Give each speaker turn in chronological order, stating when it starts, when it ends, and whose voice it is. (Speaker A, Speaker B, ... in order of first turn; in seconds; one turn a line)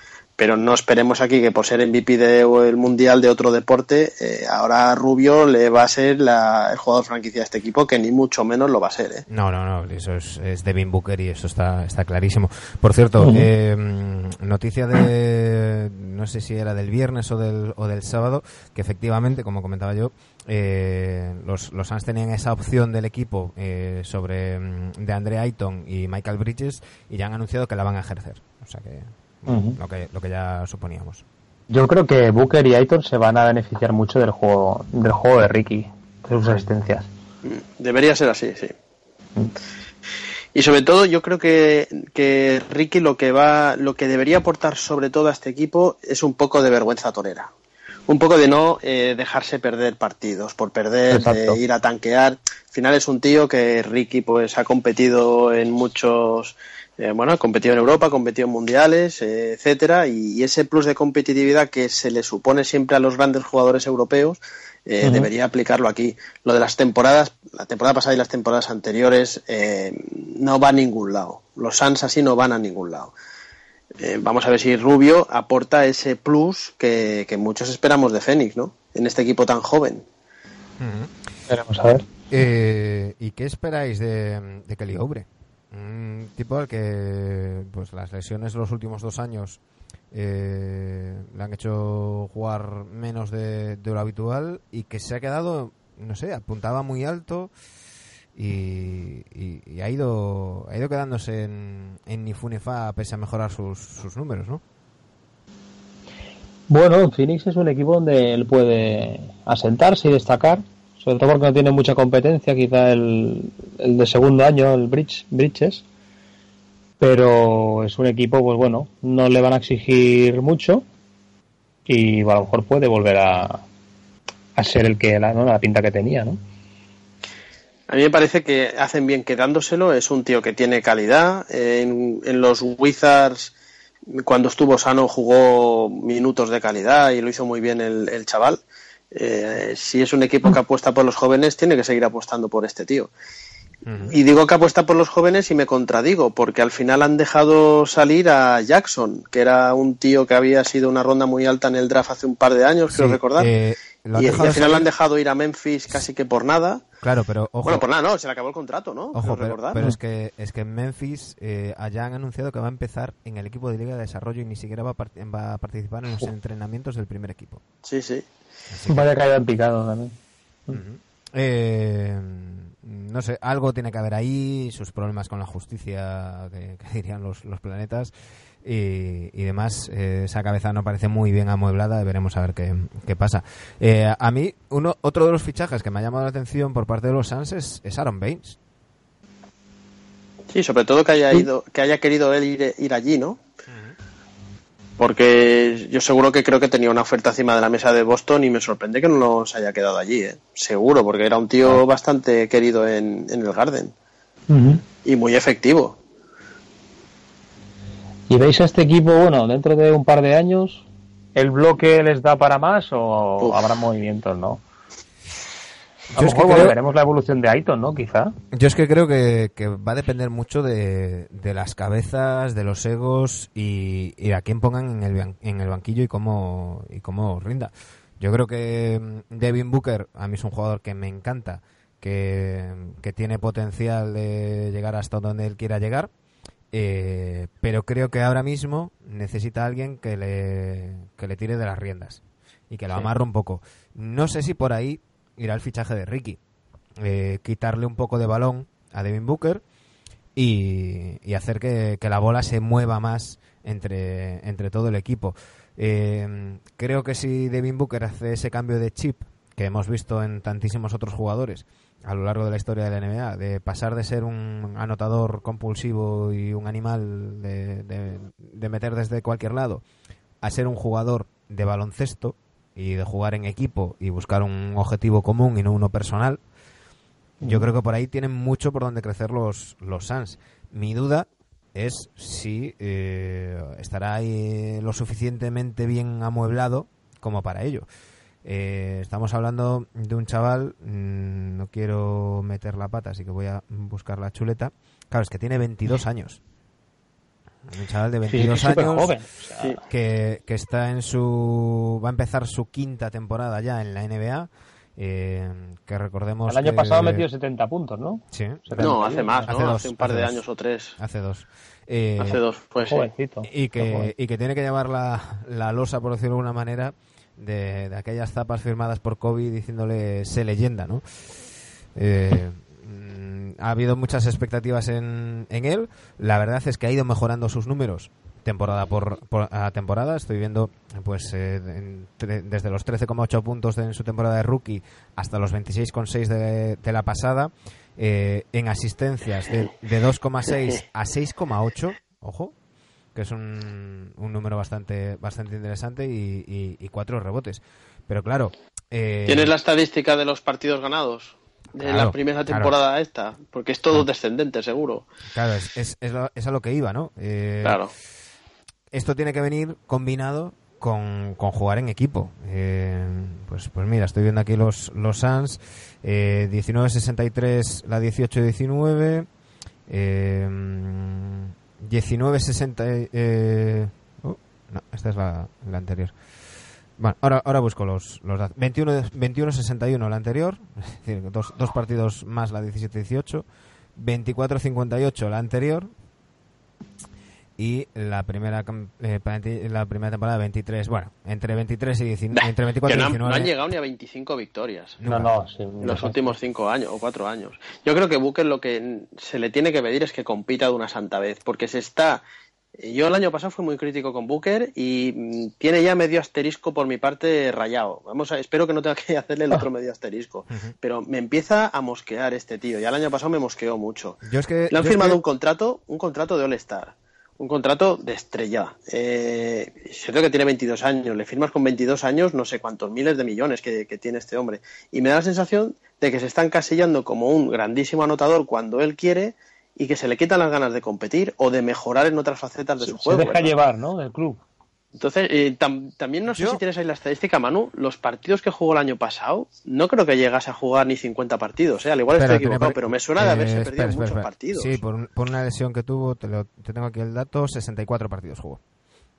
Speaker A: 0.4-9.2
Speaker B: 9.3-31.2
Speaker C: 13.2-13.5
Speaker C: 29.5-29.8
Speaker C: 31.7-37.1
Speaker A: 37.4-38.7
Speaker A: 40.5-47.5
Speaker A: 48.1-73.1
Speaker C: 51.1-51.6
Speaker C: 65.0-65.3
Speaker A: 74.0-80.0
Speaker B: 80.8-81.1
Speaker C: 81.5-82.0
Speaker B: 82.3-89.6
Speaker B: 90.1-97.5
Speaker B: 98.3-104.6
Speaker C: 106.7-115.8
Speaker C: 117.0-120.8
Speaker C: 121.9-123.6
Speaker C: 124.6-126.4
Speaker A: 127.9-133.5
Speaker A: 134.2-138.6
Speaker A: 139.1-143.1
Speaker B: 143.9-144.2
Speaker A: 144.1-153.5
Speaker B: 152.9-154.9
Speaker A: 154.1-156.8
Speaker B: 157.0-157.8
Speaker A: 157.6-159.8
Speaker B: 159.1-167.6
Speaker A: 167.8-168.2
Speaker B: 168.7-169.1
Speaker C: 168.9-170.1
Speaker B: 170.7-178.1
Speaker B: 178.6-188.6
Speaker A: 190.5-193.4
Speaker B: 193.7-193.9
Speaker A: 195.0-203.9
Speaker C: 204.5-204.8
Speaker A: 205.0-206.0
Speaker C: 208.3-210.8
Speaker C: 211.4-214.6
Speaker B: 216.1-216.8
Speaker C: 216.2-218.3
Speaker B: 218.5-236.1
Speaker B: 236.7-246.4
Speaker B: 247.0-249.6
Speaker B: 250.4-269.8
Speaker B: 270.4-276.4
Speaker B: 277.4-287.9
Speaker B: 288.4-296.4
Speaker B: 297.7-299.1
Speaker C: 298.3-299.8
Speaker B: 299.9-307.2
Speaker C: 306.5-309.5
Speaker B: 308.3-310.4
Speaker A: 308.8-311.0
Speaker B: 311.0-312.4
Speaker A: 312.2-313.1
Speaker C: 312.9-314.1
Speaker B: 313.4-321.0
Speaker B: 321.9-342.6
Speaker B: 343.1-349.5
Speaker A: 349.3-355.1
Speaker B: 351.8-352.7
Speaker B: 355.3-357.8
Speaker A: 357.6-357.9
Speaker B: 358.9-369.3
Speaker B: 369.9-376.1
Speaker B: 377.0-385.9
Speaker B: 387.6-393.5
Speaker A: 392.3-395.0
Speaker B: 395.0-395.3
Speaker C: 395.1-396.4
Speaker A: 395.8-402.2
Speaker A: 402.8-414.2
Speaker B: 414.3-415.2
Speaker A: 414.7-433.5
Speaker C: 432.8-434.4
Speaker A: 435.0-444.8
Speaker B: 436.3-436.6
Speaker B: 442.1-448.6